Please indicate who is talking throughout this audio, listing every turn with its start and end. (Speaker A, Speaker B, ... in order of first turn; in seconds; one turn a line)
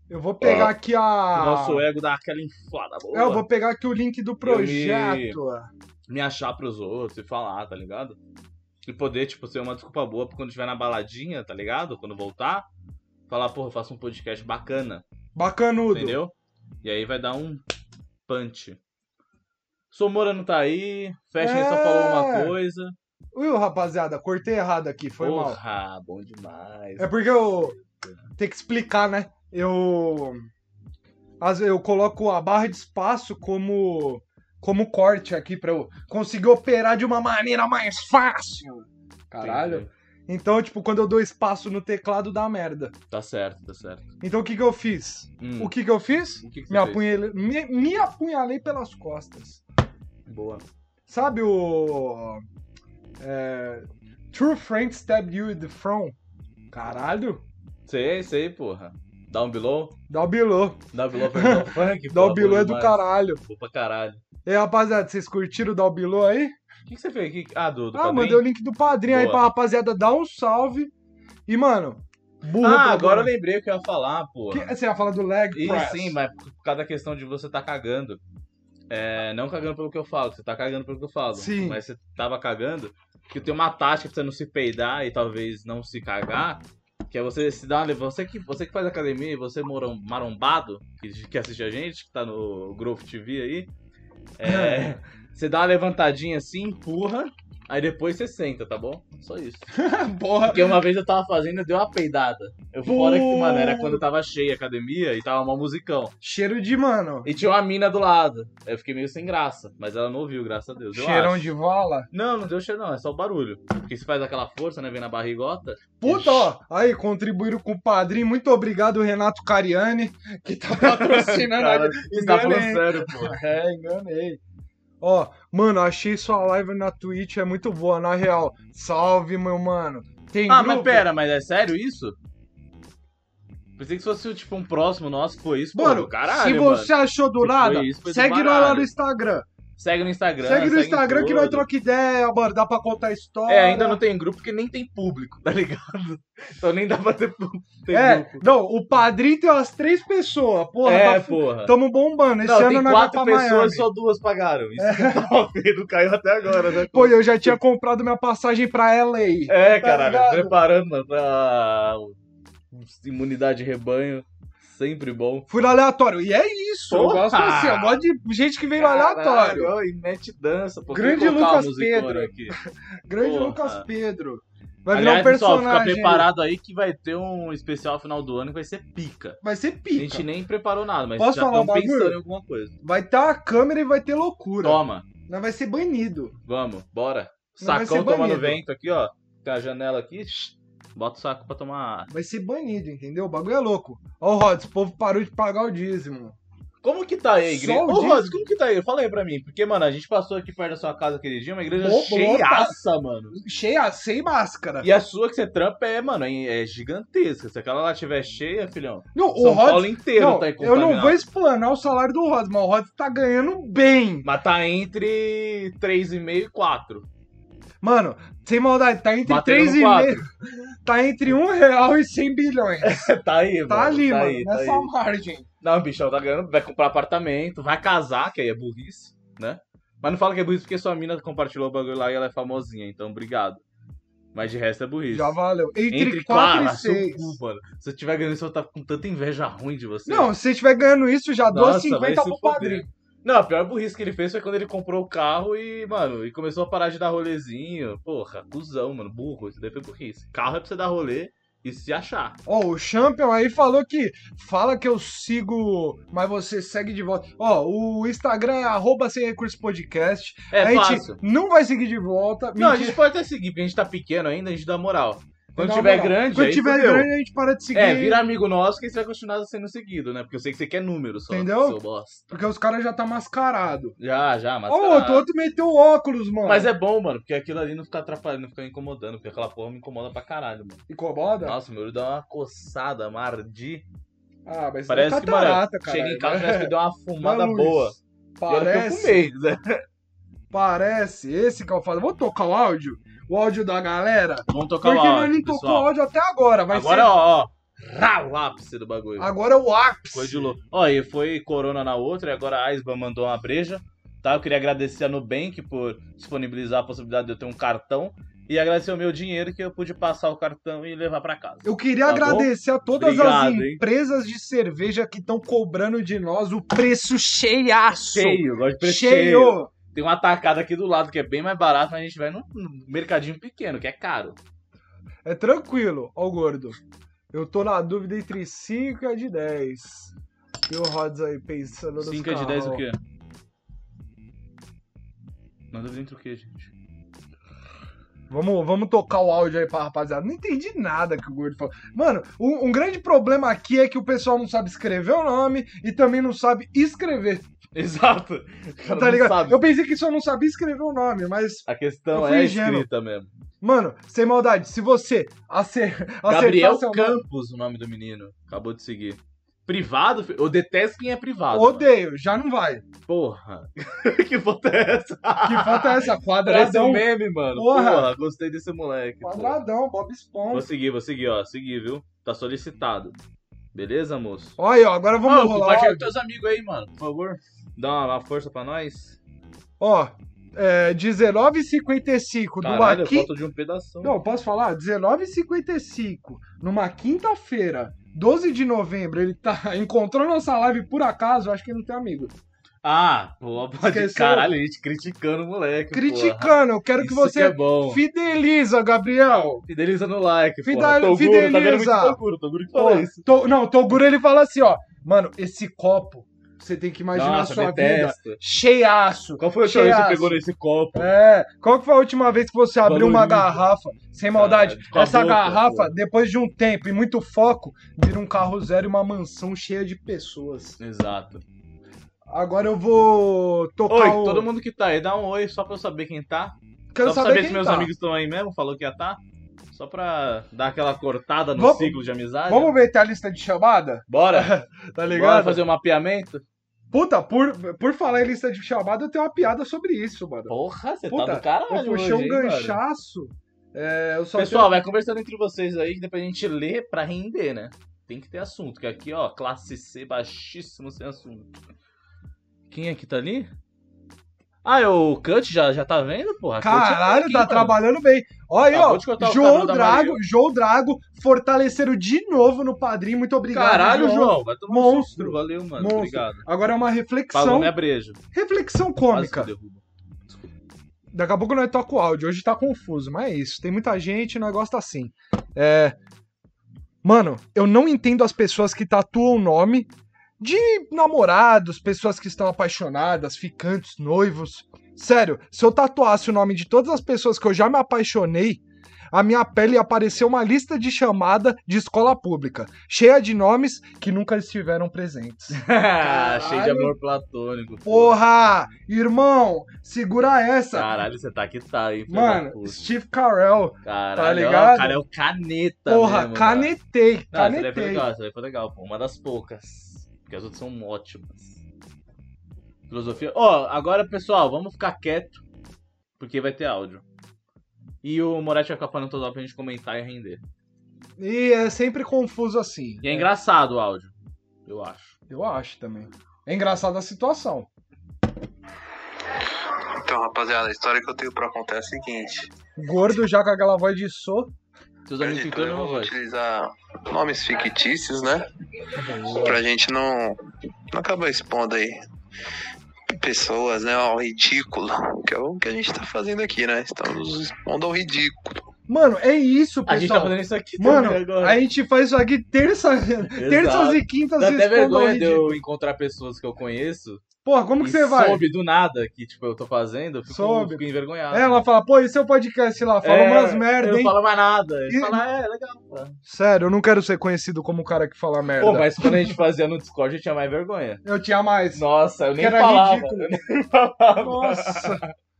Speaker A: 0.1-1.8
Speaker B: 0.4-0.7
Speaker B: 1.3-3.5
Speaker A: 3.1-5.7
Speaker B: 4.4-5.4
Speaker B: 6.1-8.2
Speaker B: 8.8-12.7
Speaker B: 13.3-15.0
Speaker A: 15.3-16.2
Speaker B: 15.9-17.6
Speaker B: 18.3-18.8
Speaker B: 19.9-22.9
Speaker A: 21.4-22.5
Speaker A: 23.3-25.6
Speaker B: 25.2-28.2
Speaker A: 27.0-27.8
Speaker A: 28.4-30.5
Speaker A: 31.4-42.9
Speaker B: 39.4-39.9
Speaker B: 43.1-44.1
Speaker A: 44.2-49.6
Speaker B: 45.4-45.7
Speaker B: 46.4-47.1
Speaker B: 50.3-50.6
Speaker A: 51.1-52.4
Speaker A: 53.2-56.1
Speaker A: 56.7-57.4
Speaker B: 57.9-60.0
Speaker A: 60.1-63.4
Speaker B: 60.9-64.2
Speaker A: 64.4-66.5
Speaker B: 66.9-68.4
Speaker A: 67.9-70.9
Speaker B: 69.1-69.4
Speaker A: 71.5-73.3
Speaker B: 72.6-74.7
Speaker A: 74.5-76.2
Speaker B: 75.5-78.2
Speaker B: 78.9-93.7
Speaker A: 81.3-81.8
Speaker B: 94.4-99.7
Speaker A: 94.4-94.9
Speaker A: 99.7-100.8
Speaker B: 100.4-106.1
Speaker A: 102.8-104.0
Speaker A: 106.2-107.3
Speaker B: 107.2-111.5
Speaker A: 110.9-112.1
Speaker B: 112.1-116.5
Speaker A: 116.0-124.4
Speaker B: 120.8-123.4
Speaker A: 125.0-131.1
Speaker B: 130.5-132.2
Speaker B: 133.8-138.9
Speaker A: 135.7-139.4
Speaker B: 139.8-141.7
Speaker A: 140.4-144.0
Speaker B: 143.5-148.4
Speaker A: 147.9-153.9
Speaker B: 150.8-151.7
Speaker B: 152.4-157.6
Speaker A: 154.8-155.2
Speaker A: 156.9-160.6
Speaker B: 159.5-162.2
Speaker B: 162.7-165.5
Speaker A: 165.5-169.7
Speaker B: 166.9-168.0
Speaker B: 168.8-172.6
Speaker A: 170.9-176.3
Speaker B: 173.2-173.8
Speaker B: 174.9-179.4
Speaker A: 179.4-180.3
Speaker B: 179.9-182.7
Speaker A: 181.2-182.2
Speaker A: 182.8-186.3
Speaker B: 184.6-185.1
Speaker B: 186.4-192.1
Speaker A: 187.6-188.6
Speaker A: 192.1-196.3
Speaker B: 196.8-203.4
Speaker A: 197.4-198.4
Speaker A: 201.7-202.8
Speaker A: 203.3-204.9
Speaker B: 204.8-211.2
Speaker A: 209.1-214.3
Speaker B: 214.2-217.1
Speaker A: 217.8-220.3
Speaker B: 219.2-220.2
Speaker A: 220.8-223.1
Speaker B: 222.8-224.9
Speaker A: 223.7-225.5
Speaker B: 225.6-233.6
Speaker B: 234.3-235.4
Speaker A: 235.1-237.4
Speaker B: 235.9-240.3
Speaker A: 240.1-242.9
Speaker B: 241.5-252.4
Speaker A: 252.4-263.0
Speaker B: 260.5-261.2
Speaker B: 262.6-267.1
Speaker A: 265.6-268.2
Speaker B: 267.7-272.3
Speaker A: 271.3-271.8
Speaker A: 272.3-273.9
Speaker B: 274.0-275.3
Speaker A: 274.7-276.7
Speaker B: 276.4-280.8
Speaker A: 280.9-281.6
Speaker B: 281.4-283.9
Speaker A: 284.4-289.2
Speaker B: 284.9-288.0
Speaker B: 288.5-289.8
Speaker A: 290.5-297.1
Speaker B: 294.5-295.9
Speaker B: 296.7-299.3
Speaker A: 299.2-300.5
Speaker B: 300.1-313.8
Speaker A: 311.6-319.7
Speaker B: 318.1-324.4
Speaker A: 325.2-326.8
Speaker A: 327.3-330.1
Speaker A: 330.7-332.8
Speaker B: 332.0-333.0
Speaker B: 335.7-336.7
Speaker A: 338.3-347.4
Speaker B: 347.7-349.6
Speaker A: 348.9-352.9
Speaker B: 351.7-353.3
Speaker A: 353.6-357.2
Speaker B: 356.2-361.9
Speaker A: 361.5-362.8
Speaker B: 363.1-369.6
Speaker A: 365.4-368.1
Speaker A: 369.2-370.7
Speaker B: 370.5-373.2
Speaker B: 373.7-374.6
Speaker A: 374.6-376.1
Speaker B: 375.2-379.2
Speaker A: 379.8-383.3
Speaker B: 382.6-384.1
Speaker A: 384.0-392.3
Speaker B: 392.8-398.0
Speaker A: 393.8-394.5
Speaker A: 395.9-399.6
Speaker B: 399.7-403.2
Speaker A: 400.6-402.2
Speaker A: 402.7-410.4
Speaker B: 407.1-408.4
Speaker B: 409.4-411.1
Speaker A: 410.9-420.8
Speaker B: 412.8-413.6
Speaker B: 414.3-415.9
Speaker B: 420.8-421.4
Speaker A: 422.3-424.5
Speaker B: 423.9-429.2
Speaker A: 426.9-427.9
Speaker B: 429.7-432.8
Speaker A: 431.5-435.6
Speaker B: 434.1-434.5
Speaker B: 435.1-436.4
Speaker A: 436.9-440.5
Speaker B: 440.5-442.8
Speaker A: 441.1-444.8
Speaker B: 444.3-451.6
Speaker B: 452.7-453.5
Speaker B: 454.6-457.8
Speaker A: 456.6-467.7
Speaker B: 458.7-460.2
Speaker B: 463.5-466.4
Speaker B: 467.3-468.2
Speaker A: 468.3-469.5
Speaker B: 469.1-469.8
Speaker A: 471.1-475.9
Speaker A: 477.0-496.9
Speaker B: 495.5-498.2
Speaker A: 497.8-500.9
Speaker B: 500.7-502.8
Speaker A: 502.1-505.0
Speaker B: 503.8-506.7
Speaker A: 505.9-508.1
Speaker B: 507.3-511.6
Speaker B: 512.9-515.4
Speaker B: 516.2-517.0
Speaker B: 518.0-520.4
Speaker A: 521.2-523.3
Speaker B: 523.0-524.1
Speaker B: 524.6-525.1
Speaker A: 525.3-527.7
Speaker C: 529.8-532.5
Speaker A: 532.8-534.5
Speaker B: 535.0-536.1
Speaker C: 535.2-538.5
Speaker A: 539.0-539.5
Speaker C: 539.4-540.4
Speaker C: 540.9-542.0
Speaker C: 543.1-548.6
Speaker A: 548.9-555.6
Speaker B: 549.9-551.6
Speaker B: 553.3-557.2
Speaker A: 557.4-558.5
Speaker B: 557.8-561.7
Speaker A: 560.3-564.1
Speaker B: 563.0-566.2
Speaker A: 564.9-565.2
Speaker A: 566.2-569.3
Speaker B: 568.6-571.0
Speaker A: 571.0-571.8
Speaker B: 571.7-575.1
Speaker A: 572.4-573.3
Speaker A: 574.1-575.0